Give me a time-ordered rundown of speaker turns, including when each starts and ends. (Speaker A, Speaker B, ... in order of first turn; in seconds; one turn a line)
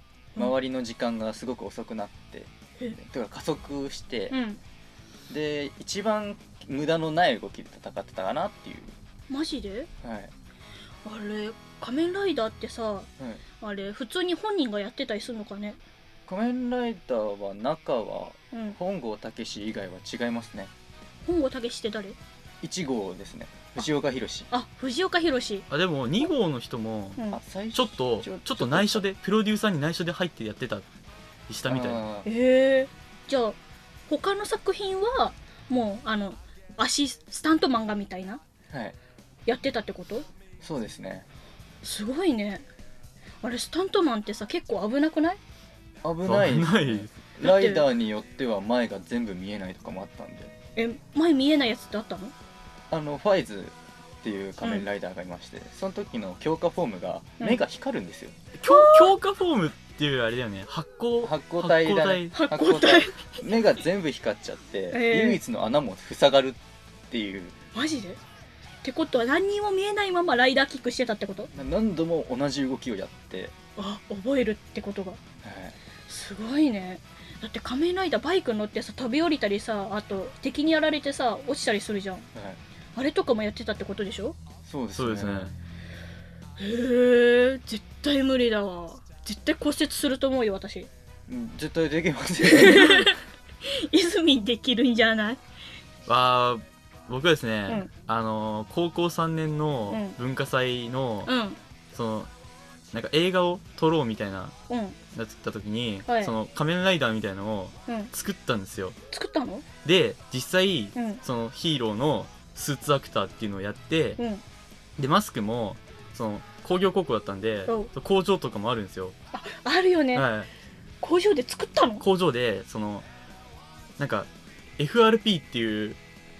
Speaker A: 0.4-4.4
Speaker B: 4.3-4.6
Speaker A: 5.3-8.9
Speaker B: 9.3-9.9
Speaker A: 10.0-10.3
Speaker B: 11.0-13.1
Speaker B: 13.6-15.8
Speaker A: 16.2-20.7
Speaker B: 18.5-18.8
Speaker B: 21.2-22.2
Speaker A: 22.6-24.5
Speaker B: 24.5-25.6
Speaker C: 25.7-27.2
Speaker A: 27.3-29.1
Speaker C: 27.7-30.8
Speaker C: 31.5-32.0
Speaker A: 31.7-32.3
Speaker B: 32.2-38.4
Speaker A: 38.7-39.0
Speaker B: 39.5-40.3
Speaker A: 40.6-41.3
Speaker B: 41.8-42.6
Speaker B: 43.4-45.4
Speaker A: 46.0-50.5
Speaker C: 46.2-47.1
Speaker B: 47.4-47.9
Speaker B: 50.8-52.3
Speaker A: 52.9-58.4
Speaker C: 58.6-62.3
Speaker B: 58.7-59.1
Speaker A: 61.2-67.6
Speaker B: 62.3-63.4
Speaker B: 64.9-65.4
Speaker B: 67.7-68.2
Speaker B: 68.8-71.5
Speaker A: 71.5-73.5
Speaker B: 73.8-75.2
Speaker A: 75.4-75.8
Speaker B: 76.1-82.3
Speaker B: 83.0-84.4
Speaker A: 84.6-85.5
Speaker C: 84.9-85.5
Speaker B: 86.6-90.9
Speaker A: 91.3-93.1
Speaker B: 92.4-95.4
Speaker C: 96.1-101.3
Speaker B: 99.9-100.2
Speaker B: 101.2-101.6
Speaker C: 101.9-102.3
Speaker C: 102.9-104.5
Speaker B: 104.7-105.0
Speaker C: 105.1-109.0
Speaker B: 106.0-106.3
Speaker B: 109.1-109.6
Speaker C: 109.8-114.2
Speaker B: 110.9-111.2
Speaker B: 114.2-114.4
Speaker C: 115.0-119.2
Speaker B: 119.3-120.3
Speaker C: 120.1-120.5
Speaker B: 121.0-122.0
Speaker C: 122.0-123.0
Speaker C: 124.0-126.0